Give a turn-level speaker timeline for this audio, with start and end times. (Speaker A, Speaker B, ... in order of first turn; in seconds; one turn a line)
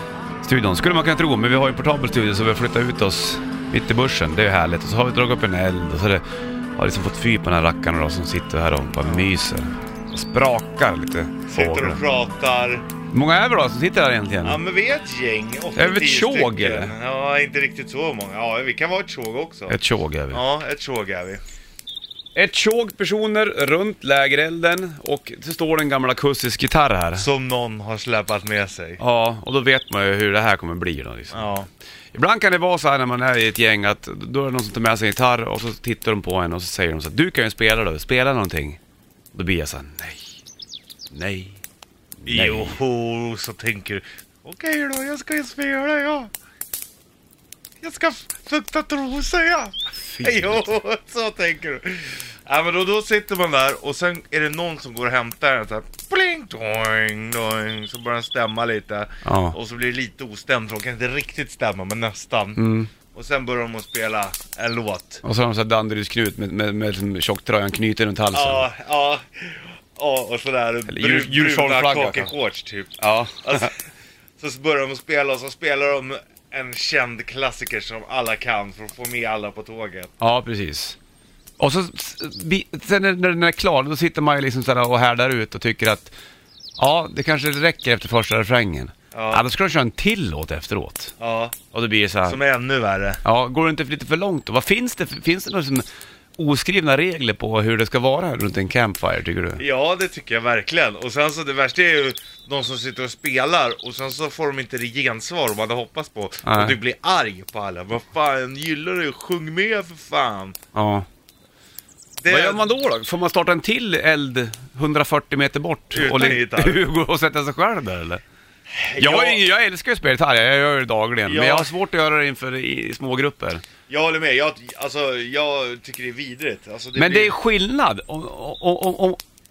Speaker A: 0.4-6.2
Speaker A: 6.8-12.0
Speaker B: 9.0-9.3
Speaker B: 11.5-12.8
Speaker A: 13.1-14.6
Speaker B: 14.4-19.8
Speaker A: 15.8-16.9
Speaker A: 19.7-20.4
Speaker B: 20.3-21.4
Speaker A: 22.4-27.3
Speaker B: 27.2-29.0
Speaker A: 29.0-31.5
Speaker B: 31.3-31.7
Speaker A: 32.1-38.8
Speaker A: 39.3-40.4
Speaker A: 41.1-41.6
Speaker A: 42.2-42.8
Speaker B: 42.3-46.3
Speaker B: 47.8-62.6
Speaker A: 50.0-50.8
Speaker A: 59.2-59.6
Speaker A: 62.6-62.9
Speaker B: 63.1-65.2
Speaker A: 65.2-68.7
Speaker B: 68.3-80.1
Speaker A: 70.9-72.3
Speaker A: 73.0-73.7
Speaker A: 80.2-81.0
Speaker A: 81.6-86.1
Speaker A: 86.8-91.1
Speaker B: 89.1-89.5
Speaker B: 91.2-91.5
Speaker A: 91.7-92.4
Speaker B: 92.2-93.2
Speaker A: 93.2-95.9
Speaker A: 96.4-99.6
Speaker B: 99.6-110.6
Speaker A: 106.4-106.8
Speaker A: 110.7-111.1
Speaker B: 112.2-112.7
Speaker A: 112.3-118.2
Speaker B: 115.9-116.8
Speaker B: 118.7-119.4
Speaker A: 119.0-123.6
Speaker B: 121.2-121.7
Speaker B: 123.9-127.3
Speaker A: 127.0-129.2